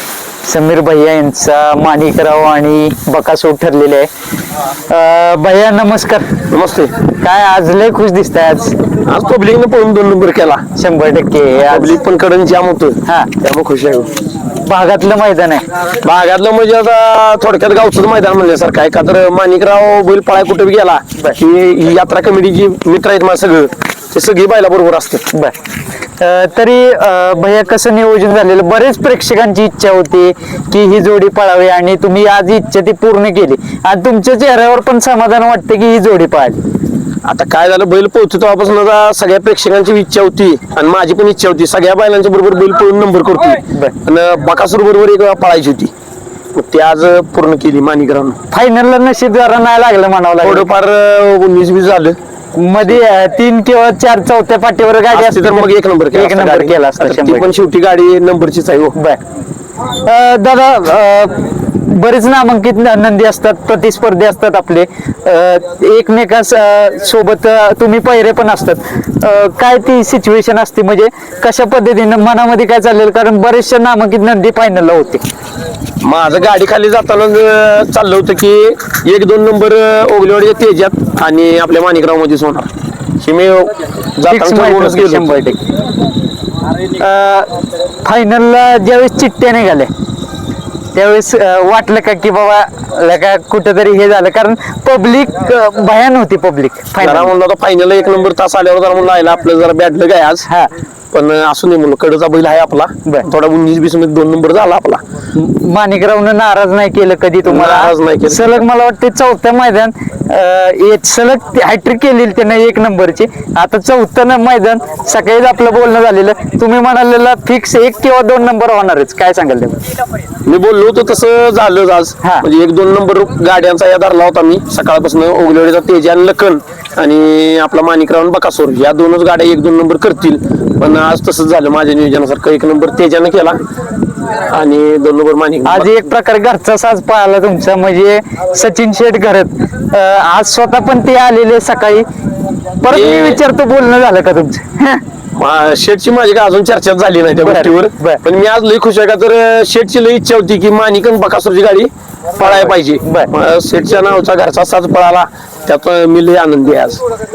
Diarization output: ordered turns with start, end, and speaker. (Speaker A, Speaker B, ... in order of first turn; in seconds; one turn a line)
Speaker A: 0.4-4.1
Speaker A: 4.9-6.4
Speaker B: 6.5-7.0
Speaker A: 7.1-8.8
Speaker B: 9.0-10.6
Speaker A: 10.8-12.0
Speaker B: 11.7-14.1
Speaker A: 13.1-13.3
Speaker A: 14.6-15.6
Speaker B: 15.9-25.3
Speaker A: 25.3-25.6
Speaker A: 26.2-36.6
Speaker B: 37.2-45.9
Speaker B: 46.5-48.4
Speaker A: 48.5-50.7
Speaker B: 50.4-52.2
Speaker A: 52.6-57.5
Speaker B: 55.1-59.0
Speaker A: 59.0-59.2
Speaker A: 60.0-75.2
Speaker B: 76.0-82.7
Speaker B: 83.2-85.3
Speaker A: 84.3-85.6
Speaker A: 86.9-87.5
Speaker A: 88.0-89.9
Speaker A: 90.9-97.3
Speaker B: 97.0-100.5
Speaker B: 101.1-105.0
Speaker A: 105.3-119.8
Speaker B: 107.5-108.4
Speaker B: 120.5-133.6
Speaker B: 134.4-135.9
Speaker A: 135.7-142.0
Speaker A: 142.8-145.0
Speaker B: 142.9-143.4
Speaker B: 145.4-157.0
Speaker A: 147.4-148.2
Speaker A: 152.4-153.3